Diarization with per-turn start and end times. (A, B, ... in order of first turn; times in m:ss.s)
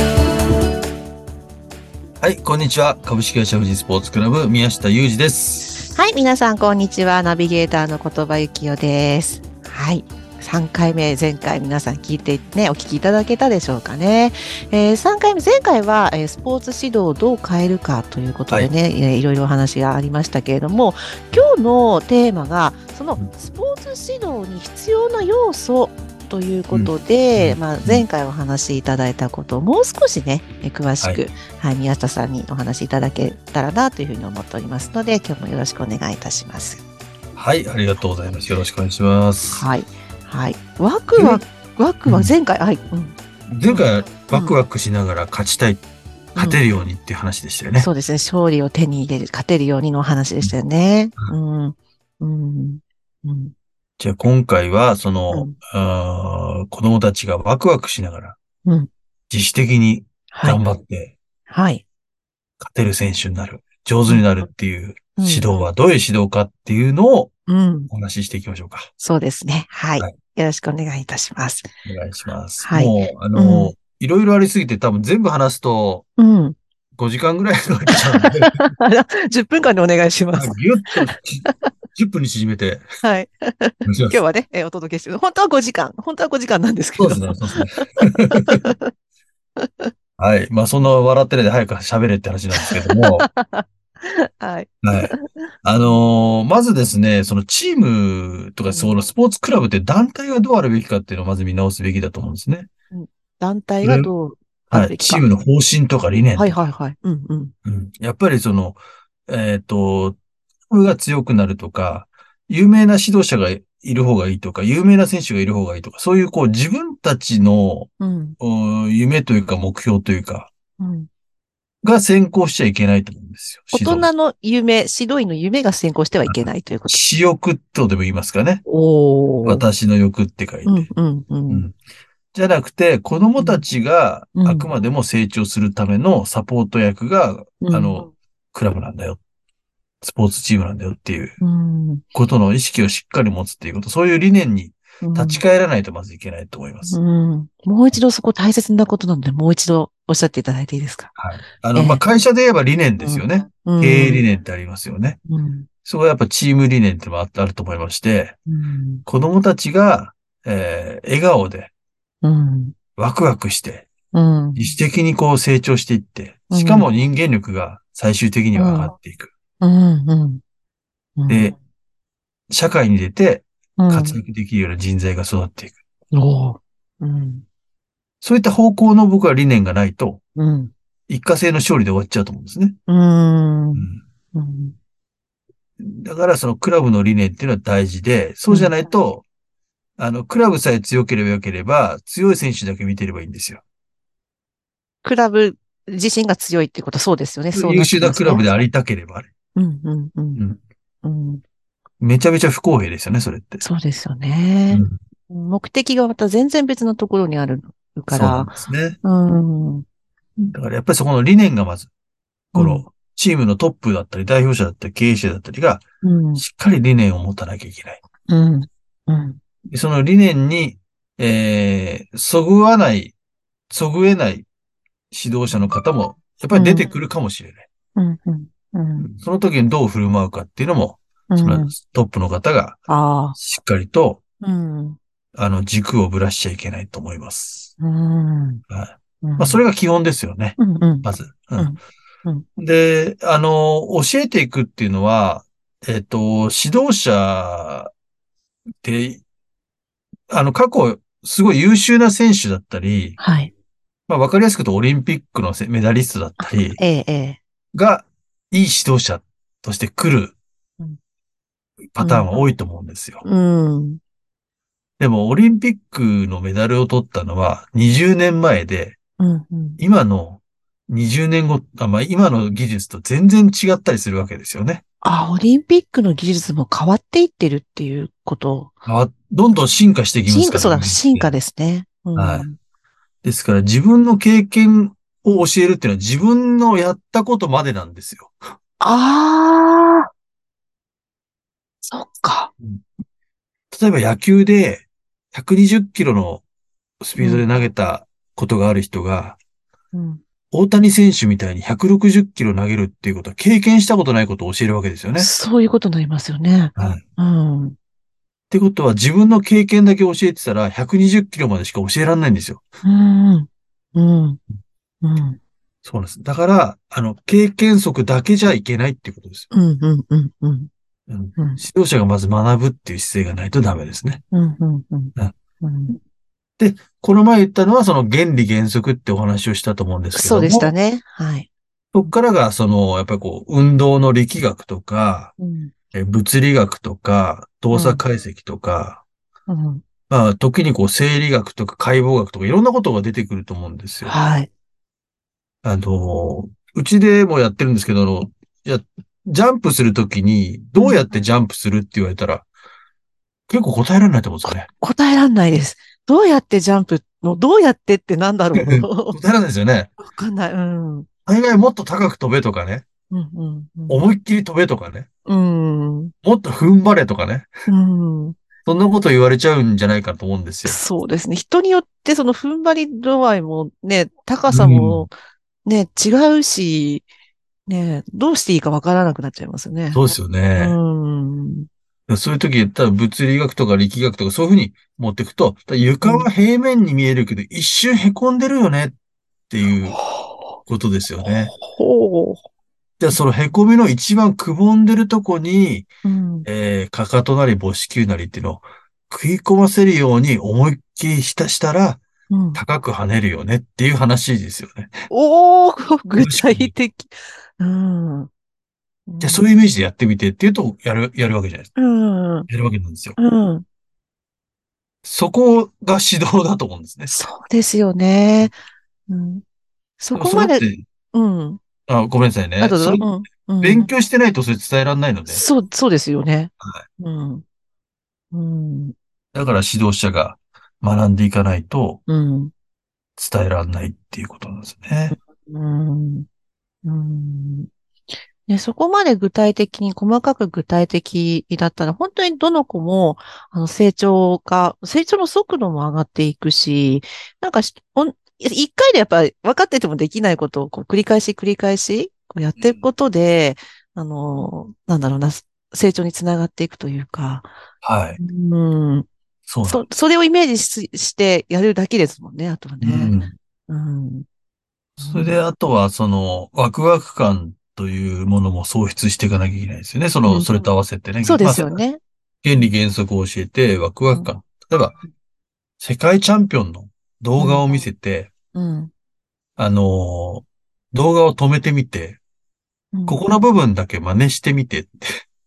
0:02.2-0:05.9 A
0:05.9-0:36.8 B
0:26.7-0:28.1 A
0:37.4-0:39.7 A
0:39.5-0:43.2 B
0:41.2-0:41.4 A
0:42.0-0:42.3 A
0:43.5-0:45.8 A
0:43.7-0:44.5 B
0:46.4-0:46.6 B
0:46.4-0:47.9 A
0:47.8-0:53.5 B
0:54.0-0:58.4 A
0:58.6-0:58.9 B
0:59.3-1:01.2 A
1:00.3-1:00.6 B
1:01.5-1:01.8 B
1:02.6-1:07.3 A
1:05.2-1:05.7 B
1:07.5-1:07.9 B
1:07.9-1:08.9 A
1:09.0-1:11.7 B
1:11.8-1:16.1 A
1:12.6-1:13.7 B
1:16.2-1:16.6 B
1:17.0-1:18.6 A
1:18.2-1:21.7 B
1:20.3-1:22.9 A
1:23.0-1:28.9 B
1:23.9-1:24.2 A
1:27.0-1:28.7 A
1:29.6-1:29.9 B
1:30.2-1:33.3 A
1:32.6-1:35.9 B
1:34.8-1:35.1 A
1:35.6-1:42.7 A
1:38.7-1:39.1 B
1:42.9-1:45.3 B
1:43.8-1:44.1 A
1:44.7-1:46.6 A
1:46.4-1:47.5 B
1:47.6-1:50.2 A
1:50.7-2:00.5 A
1:58.0-1:58.4 B
2:00.8-2:01.1 B
2:01.8-2:04.1 A
2:03.7-2:07.0 B
2:06.3-2:08.6 A
2:08.7-2:09.6 B
2:09.4-2:10.9 A
2:10.7-2:11.6 B
2:11.5-2:11.8 A
2:12.3-2:19.2 A
2:13.4-2:13.6 B
2:14.4-2:14.7 B
2:17.6-2:18.1 B
2:20.0-2:21.4 A
2:21.4-2:22.0 B
2:22.1-2:27.0 A
2:25.0-2:25.4 B
2:26.9-2:31.2 B
2:31.2-2:35.2 A
2:31.8-2:32.0 B
2:33.0-2:34.3 B
2:35.3-2:35.7 B
2:35.9-2:38.4 A
2:38.5-2:39.0 B
2:39.1-2:41.7 A
2:42.2-2:42.8 B
2:43.0-2:43.9 A
2:44.1-2:44.8 B
2:44.6-2:49.3 A
2:46.5-2:46.9 B
2:48.6-2:49.0 B
2:49.6-2:50.4 B
2:51.2-2:51.5 B
2:51.3-2:51.6 A
2:52.5-2:55.8 A
2:53.8-2:54.2 B
2:56.1-2:57.4 B
2:58.2-3:00.2 A
3:00.4-3:00.7 B
3:01.1-3:02.8 A
3:02.9-3:04.8 B
3:03.8-3:04.0 A
3:05.8-3:09.2 A
3:08.5-3:08.9 B
3:10.0-3:13.6 A
3:15.0-3:18.6 B
3:17.6-3:19.3 A
3:19.6-3:20.4 B
3:21.0-3:21.4 B
3:22.0-3:23.6 A
3:23.6-3:29.8 B
3:24.7-3:25.0 A
3:28.1-3:29.0 A
3:30.4-3:31.9 A
3:32.5-3:35.8 A
3:32.5-3:32.8 B
3:36.0-3:36.4 B
3:36.4-3:38.0 A
3:38.3-3:39.4 B
3:39.7-3:43.1 A
3:43.7-3:44.5 A
3:45.1-3:47.7 A
3:46.5-3:46.9 B
3:48.0-3:49.1 B
3:49.0-3:52.8 A
3:51.3-3:51.7 B
3:52.9-3:53.4 B
3:53.4-3:54.2 A
3:54.4-3:55.0 B
3:55.4-3:57.7 A
3:57.8-3:58.6 B
3:58.7-4:01.7 A
3:59.2-3:59.6 B
4:00.6-4:02.4 B
4:02.6-4:07.9 A
4:08.8-4:09.2 A
4:10.3-4:13.2 A
4:13.2-4:13.5 B
4:14.1-4:16.8 A
4:16.4-4:17.4 B
4:17.7-4:20.4 A
4:21.9-4:23.2 A
4:22.0-4:22.6 B
4:23.2-4:24.0 B
4:25.0-4:29.0 A
4:29.2-4:29.8 B
4:29.8-4:34.8 A
4:35.0-4:38.7 B
4:38.9-4:41.3 A
4:40.3-4:42.6 B
4:42.2-4:42.5 A
4:43.2-4:48.4 A
4:48.8-4:50.1 B
4:51.8-4:52.5 B
4:53.7-4:56.4 A
4:57.0-4:59.4 A
4:57.2-4:57.7 B
4:59.9-5:00.2 B
5:00.5-5:05.3 A
5:05.2-5:07.8 B
5:06.8-5:07.0 A
5:08.5-5:12.6 A
5:12.8-5:14.4 B
5:15.0-5:15.4 B
5:15.8-5:19.5 A
5:19.5-5:20.7 B
5:21.1-5:24.2 A
5:21.4-5:21.6 B
5:24.3-5:26.0 B
5:26.6-5:30.7 A
5:30.1-5:31.5 B
5:31.9-5:35.3 A
5:35.4-5:35.7 B
5:35.9-5:39.0 A
5:37.7-5:38.0 B
5:39.5-5:39.8 B
5:40.1-5:44.2 A
5:44.0-5:44.5 B
5:45.6-5:52.5 A
5:50.8-5:51.1 B
5:53.5-5:54.7 A
5:54.5-5:59.2 B
5:58.6-5:59.9 A
6:00.0-6:01.1 B
6:01.3-6:02.8 A
6:03.1-6:04.0 B
6:03.9-6:05.1 A
6:05.3-6:06.1 B
6:06.2-6:07.5 A
6:07.7-6:08.4 B
6:08.6-6:10.8 A
6:10.6-6:15.1 B
6:14.5-6:15.1 A
6:15.6-6:17.1 B
6:17.7-6:21.7 B
6:19.9-6:20.8 A
6:22.1-6:29.0 A
6:26.0-6:26.3 B
6:29.5-6:30.0 A
6:29.8-6:30.6 B
6:30.6-6:31.5 A
6:31.2-6:32.4 B
6:33.0-6:35.9 A
6:36.0-6:36.5 B
6:36.4-6:42.0 A
6:42.3-6:42.6 B
6:42.6-6:45.0 A
6:45.1-6:48.3 B
6:46.2-6:46.7 A
6:49.1-6:49.5 B
6:49.2-6:51.7 A
6:51.8-6:52.5 B
6:52.5-6:53.2 A
6:53.2-6:53.6 B
6:55.0-6:57.2 A
6:57.1-6:58.6 B
6:59.1-6:59.4 B
7:00.0-7:00.6 B
7:00.2-7:00.8 A
7:01.1-7:01.6 B
7:01.9-7:03.1 A
7:02.6-7:03.9 B
7:03.6-7:05.5 A
7:05.3-7:07.4 B
7:08.3-7:09.0 B
7:09.3-7:12.0 A
7:12.1-7:12.5 B
7:13.2-7:15.2 A
7:15.1-7:16.3 B
7:16.8-7:17.7 B
7:18.5-7:37.5 B
7:37.8-7:38.2 A
7:38.2-7:39.1 B
7:39.5-7:39.8 A
7:39.6-7:43.2 B
7:42.8-7:43.3 A
7:43.7-7:44.3 B
7:45.0-7:51.8 A
7:45.0-7:45.4 B
7:50.3-7:50.7 B
7:51.2-7:52.0 B
7:52.4-7:55.0 A
7:55.8-7:58.3 A
7:57.4-7:57.9 B
7:58.5-7:58.9 B
7:59.6-8:02.2 A
8:02.9-8:03.2 B
8:03.1-8:05.2 A